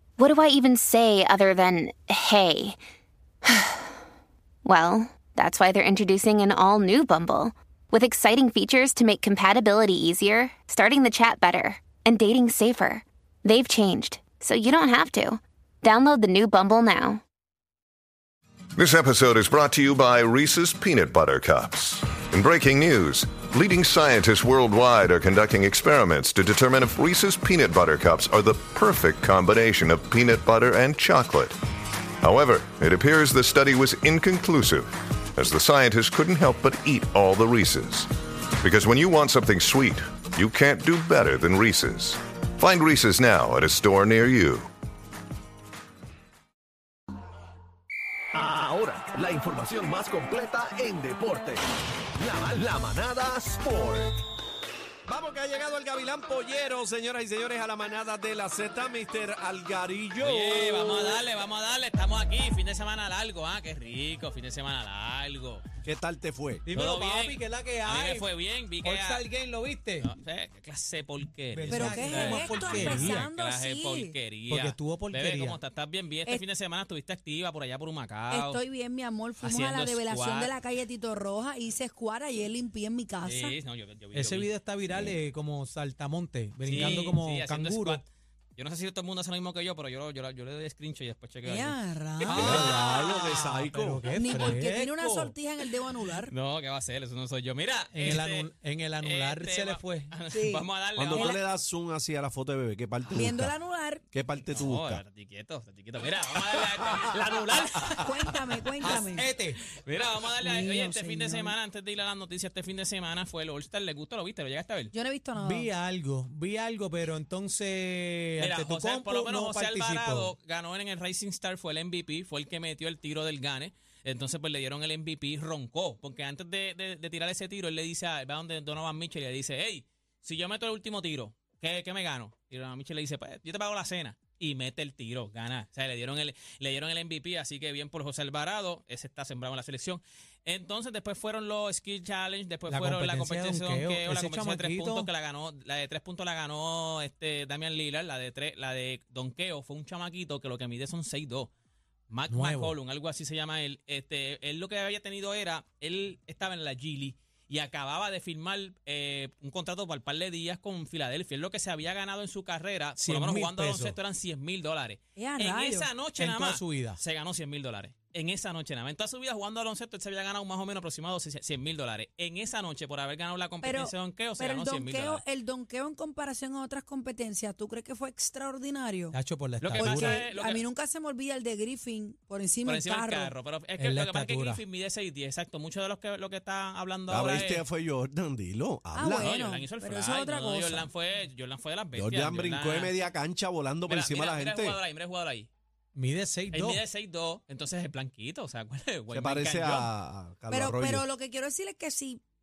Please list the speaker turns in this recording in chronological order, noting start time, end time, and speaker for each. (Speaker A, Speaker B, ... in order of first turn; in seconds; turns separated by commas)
Speaker A: 0.2-2.8, Speaker A: 3.4-3.9, Speaker A: 4.6-17.2, Speaker B: 18.8-31.6, Speaker B: 32.2-38.1, Speaker B: 38.6-44.7, Speaker C: 48.3-51.6, Speaker C: 52.1-54.2, Speaker D: 55.0-61.2, Speaker E: 60.2-65.6, Speaker D: 65.8-66.6, Speaker F: 66.7-68.3, Speaker E: 66.7-69.2, Speaker F: 68.8-70.1, Speaker E: 70.0-78.6, Speaker F: 71.5-73.3, Speaker G: 71.7-74.1, Speaker F: 74.5-75.6, Speaker G: 78.3-83.5, Speaker E: 79.4-80.5, Speaker E: 83.2-84.5, Speaker F: 84.1-88.0, Speaker E: 86.7-88.0, Speaker E: 88.6-93.3, Speaker G: 91.4-92.8, Speaker F: 92.3-95.3, Speaker D: 92.3-94.0, Speaker G: 94.1-96.3, Speaker E: 96.2-101.3, Speaker F: 97.9-100.1, Speaker G: 100.3-101.4, Speaker D: 101.0-103.5, Speaker G: 103.1-104.0, Speaker D: 104.1-105.0, Speaker E: 104.5-109.0, Speaker G: 108.0-109.3, Speaker F: 108.8-109.6, Speaker E: 109.8-114.9, Speaker G: 110.4-111.5, Speaker G: 114.9-115.7, Speaker F: 115.3-120.3, Speaker E: 118.4-151.5, Speaker F: 142.7-145.1, Speaker E: 152.1-175.2, Speaker F: 152.3-152.7, Speaker F: 163.0-163.9, Speaker G: 165.2-165.9, Speaker F: 166.2-167.0, Speaker G: 173.6-179.2, Speaker F: 179.1-180.2, Speaker E: 179.6-180.6, Speaker G: 179.7-183.3, Speaker E: 182.7-187.6, Speaker F: 183.8-184.6, Speaker D: 187.1-189.4, Speaker G: 188.9-190.9, Speaker E: 189.1-192.9, Speaker D: 191.9-194.8, Speaker E: 193.9-195.5, Speaker F: 195.9-196.8, Speaker E: 196.5-199.9, Speaker D: 199.1-201.1, Speaker G: 200.5-202.2